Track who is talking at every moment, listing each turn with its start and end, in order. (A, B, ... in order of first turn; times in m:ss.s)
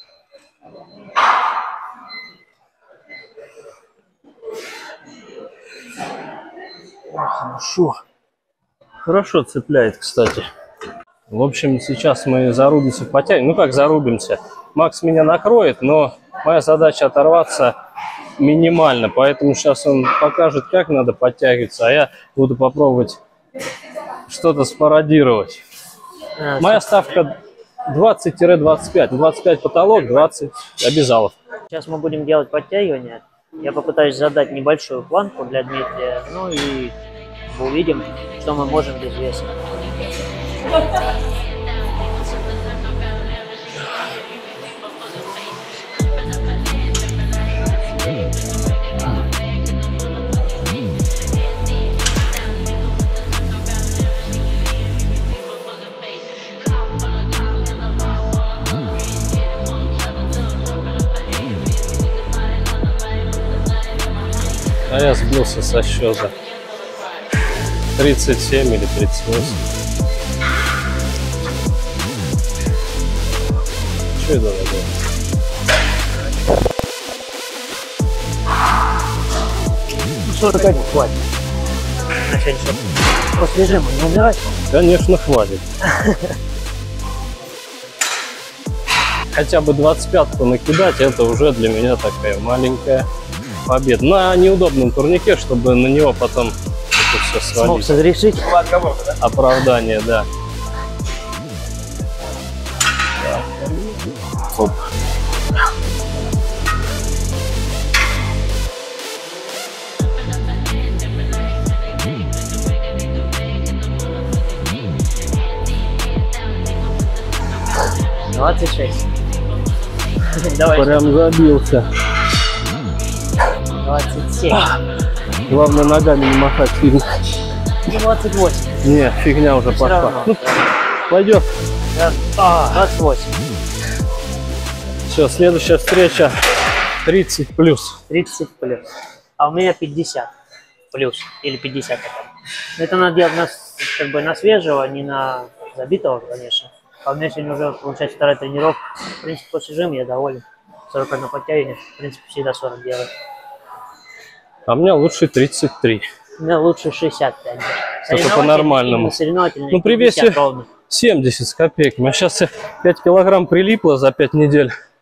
0:07.2-0:08.0 A
0:09.0-0:10.5 A
0:11.3-0:17.7 A
0:18.4-0:23.2 A
0:24.3-0:25.6 A
0:26.4-0:26.9 B
0:26.6-0:27.4 A
0:27.9-0:31.3 A
0:31.7-0:36.9 B
0:37.5-0:39.9 B
1:04.9-1:06.3 A
1:08.0-1:09.6 A
1:14.1-1:14.9 A
1:20.2-1:21.2 B
1:22.3-1:24.4 B
1:24.7-1:25.6 A
1:25.9-1:26.3 B
1:29.3-1:33.1 A
1:33.6-1:38.0 A
1:37.5-1:38.6 B
1:39.2-1:40.3 A
1:43.2-1:44.8 A
1:58.3-1:59.0 B
2:00.3-2:01.1 B
2:00.7-2:01.9 A
2:03.8-2:04.7 B
2:05.5-2:07.1 A
2:07.8-2:08.9 B
2:08.8-2:10.4 A
2:09.7-2:10.7 B
2:11.1-2:11.5 A
2:11.9-2:13.3 B
2:15.1-2:16.4 A
2:17.0-2:18.0 A
2:18.1-2:18.8 B
2:19.4-2:20.3 B
2:20.9-2:33.1 B
2:34.7-2:36.0 A
2:36.4-2:40.7 B
2:38.1-2:39.2 A
2:39.7-2:44.7 A